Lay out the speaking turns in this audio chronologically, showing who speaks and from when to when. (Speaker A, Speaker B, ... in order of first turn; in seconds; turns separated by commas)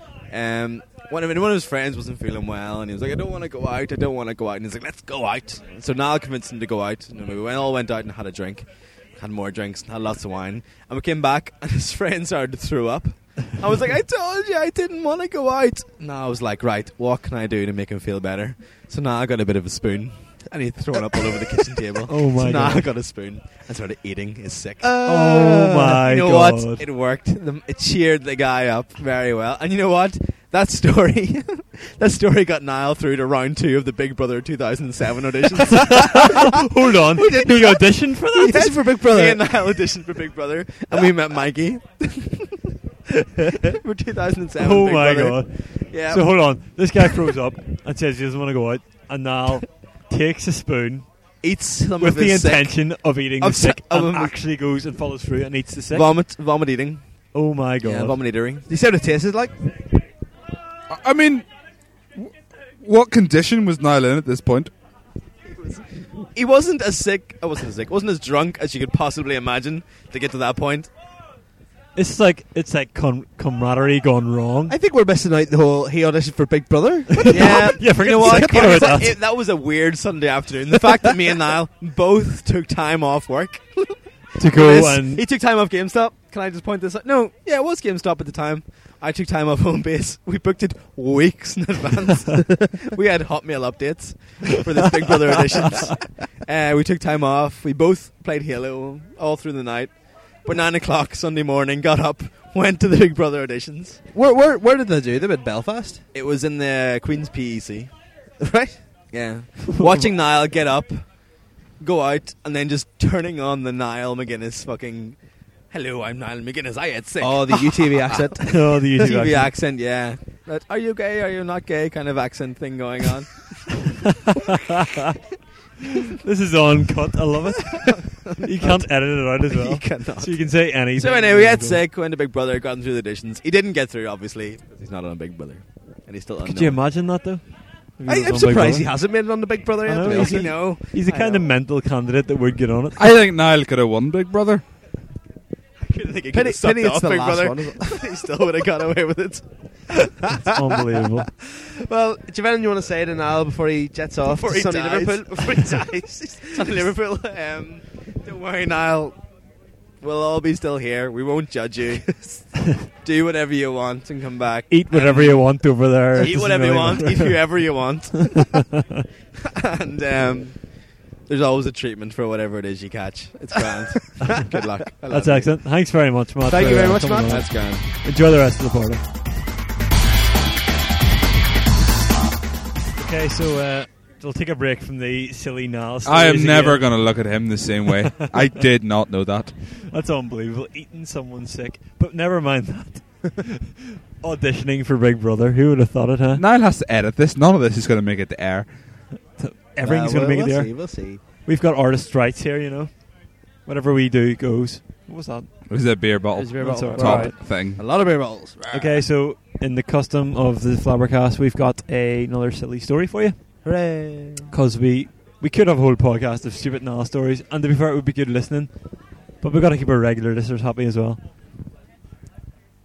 Speaker A: 0.3-25.0, Speaker B: 21.3-21.6, Speaker C: 22.1-22.9, Speaker B: 24.8-26.0, Speaker C: 25.0-26.9, Speaker A: 25.9-36.5, Speaker C: 35.8-38.8, Speaker B: 37.2-39.6, Speaker A: 38.5-42.5, Speaker A: 43.5-46.6, Speaker C: 44.6-51.2, Speaker A: 51.4-54.4, Speaker C: 52.0-56.1, Speaker A: 55.9-58.7, Speaker C: 57.3-58.2, Speaker B: 58.7-59.8, Speaker D: 60.9-61.5, Speaker D: 62.1-64.7, Speaker A: 65.5-70.9, Speaker C: 72.0-74.8, Speaker B: 74.7-79.1, Speaker C: 77.2-79.2, Speaker A: 77.3-104.0, Speaker C: 84.4-85.3, Speaker B: 104.1-106.0, Speaker A: 106.1-107.9, Speaker B: 108.4-108.8, Speaker A: 109.1-123.8, Speaker C: 109.7-110.1, Speaker B: 117.2-118.8, Speaker C: 118.5-119.6, Speaker C: 124.3-125.1, Speaker C: 126.2-131.8, Speaker A: 128.0-136.9, Speaker C: 136.4-139.2, Speaker B: 138.1-140.6, Speaker C: 139.8-143.0, Speaker A: 140.0-141.5, Speaker D: 143.0-144.7, Speaker A: 145.8-149.5, Speaker B: 146.3-148.1, Speaker C: 150.5-151.3, Speaker B: 151.8-156.9, Speaker A: 154.2-156.0, Speaker A: 156.5-159.2, Speaker A: 160.0-168.8, Speaker C: 164.7-167.5, Speaker A: 169.5-175.6, Speaker C: 175.1-179.0, Speaker B: 176.4-177.6, Speaker A: 176.5-177.9, Speaker C: 183.0-187.0, Speaker D: 186.1-189.6, Speaker C: 189.7-196.4, Speaker D: 196.3-199.1, Speaker C: 199.3-207.4, Speaker B: 199.8-201.2, Speaker D: 205.7-207.8, Speaker B: 206.4-209.0, Speaker C: 208.7-213.4, Speaker B: 213.6-214.5, Speaker C: 214.5-221.2